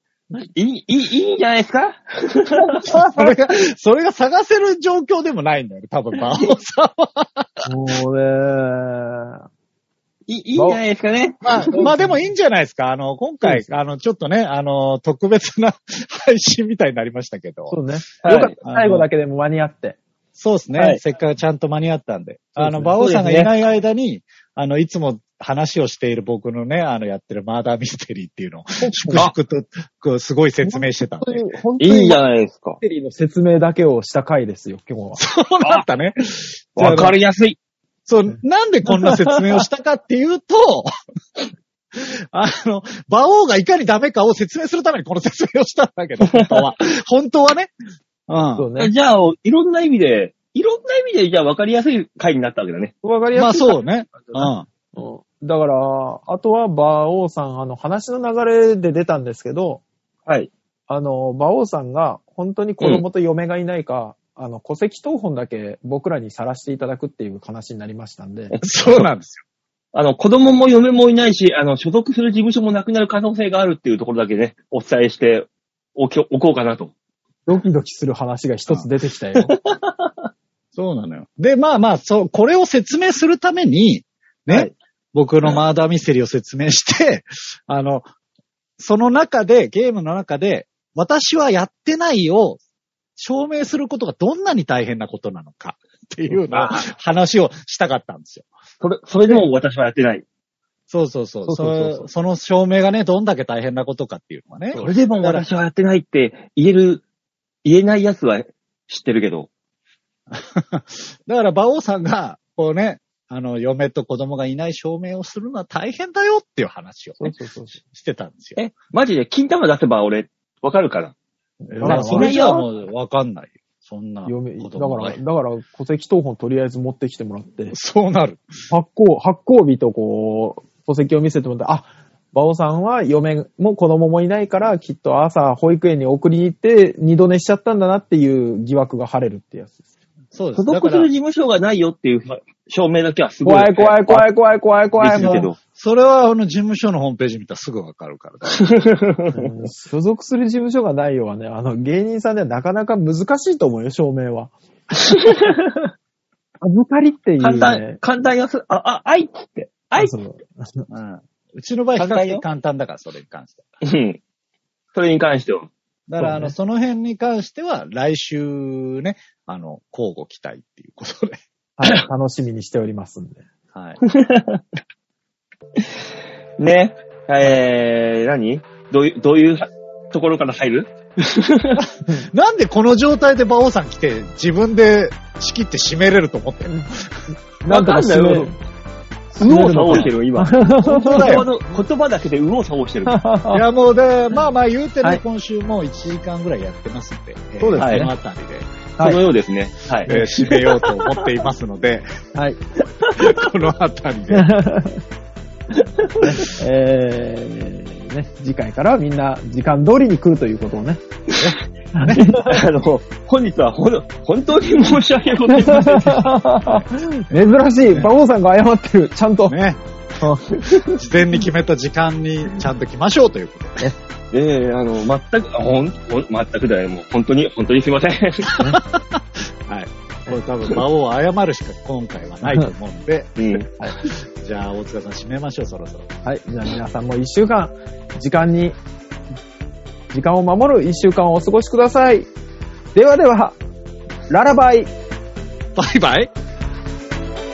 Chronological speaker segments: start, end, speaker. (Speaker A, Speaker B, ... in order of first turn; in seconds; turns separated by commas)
Speaker A: 0.4-2.8, Speaker B: 2.6-3.4, Speaker C: 2.9-7.6, Speaker B: 7.7-9.4, Speaker A: 10.3-11.9, Speaker B: 10.6-10.8, Speaker C: 11.4-17.8, Speaker B: 11.8-12.2, Speaker B: 17.7-20.0, Speaker A: 18.2-18.5, Speaker C: 18.6-19.1, Speaker C: 20.4-31.5, Speaker A: 20.7-21.0, Speaker B: 22.6-23.0, Speaker A: 23.0-23.5, Speaker B: 28.8-29.3, Speaker B: 30.6-32.2, Speaker A: 31.8-32.8, Speaker B: 32.8-35.2, Speaker C: 35.1-37.2, Speaker A: 36.8-37.6, Speaker C: 38.1-40.9, Speaker C: 41.9-47.7, Speaker A: 46.2-46.7, Speaker C: 48.3-48.6, Speaker B: 48.5-48.9, Speaker A: 48.8-52.9, Speaker B: 53.0-59.8, Speaker C: 53.3-54.7, Speaker B: 60.9-68.5, Speaker A: 68.5-69.0, Speaker C: 68.6-69.4, Speaker A: 69.9-76.9, Speaker B: 77.5-79.5, Speaker A: 79.4-80.2, Speaker C: 80.7-88.1, Speaker C: 88.8-92.6, Speaker C: 93.2-98.5, Speaker A: 96.3-96.8, Speaker A: 98.8-100.2, Speaker C: 100.9-105.5, Speaker A: 101.5-102.0, Speaker A: 104.7-107.0, Speaker A: 107.6-109.5, Speaker C: 110.3-118.6, Speaker B: 117.2-117.8, Speaker A: 118.5-121.1, Speaker B: 121.6-122.3, Speaker C: 121.7-125.2, Speaker A: 121.8-122.7, Speaker B: 124.2-127.7, Speaker C: 127.7-128.6, Speaker B: 128.7-139.8, Speaker C: 140.3-141.1, Speaker A: 140.6-144.3, Speaker B: 143.4-145.5, Speaker A: 144.9-145.6, Speaker C: 145.0-148.7, Speaker A: 148.5-149.5, Speaker B: 149.3-154.5, Speaker A: 155.2-155.5, Speaker B: 156.6-158.0, Speaker A: 157.4-160.1, Speaker B: 160.0-160.9, Speaker C: 160.9-163.6, Speaker A: 162.0-162.4, Speaker A: 163.8-164.2, Speaker A: 164.9-165.7, Speaker C: 166.1-171.4, Speaker B: 166.2-166.5, Speaker B: 171.8-173.4, Speaker C: 173.7-174.0, Speaker A: 174.1-174.6, Speaker A: 176.6-181.8, Speaker C: 181.8-187.1, Speaker B: 187.6-188.5, Speaker A: 187.7-188.6, Speaker B: 189.3-191.4, Speaker A: 189.4-193.3, Speaker C: 189.5-190.1, Speaker C: 190.8-191.5, Speaker B: 193.1-193.6, Speaker C: 193.5-198.7, Speaker B: 197.6-198.1, Speaker A: 197.8-198.0, Speaker B: 199.0-199.2, Speaker A: 199.0-201.2, Speaker C: 200.0-202.1, Speaker B: 200.1-200.3, Speaker B: 202.3-202.6, Speaker C: 203.1-204.5, Speaker B: 204.3-205.0, Speaker A: 205.7-206.3, Speaker B: 206.2-211.0, Speaker C: 211.3-212.3, Speaker B: 211.9-212.6, Speaker A: 212.2-216.3, Speaker B: 215.5-219.6, Speaker C: 216.6-218.1, Speaker C: 219.5-219.8, Speaker B: 220.2-220.6, Speaker C: 220.8-223.9, Speaker A: 224.3-228.7, Speaker C: 228.7-233.5, Speaker A: 233.4-234.1, Speaker B: 233.7-234.0, Speaker C: 234.0-236.1, Speaker B: 236.2-238.8, Speaker B: 240.1-242.3, Speaker B: 242.9-243.6, Speaker B: 244.3-244.9, Speaker C: 245.8-246.3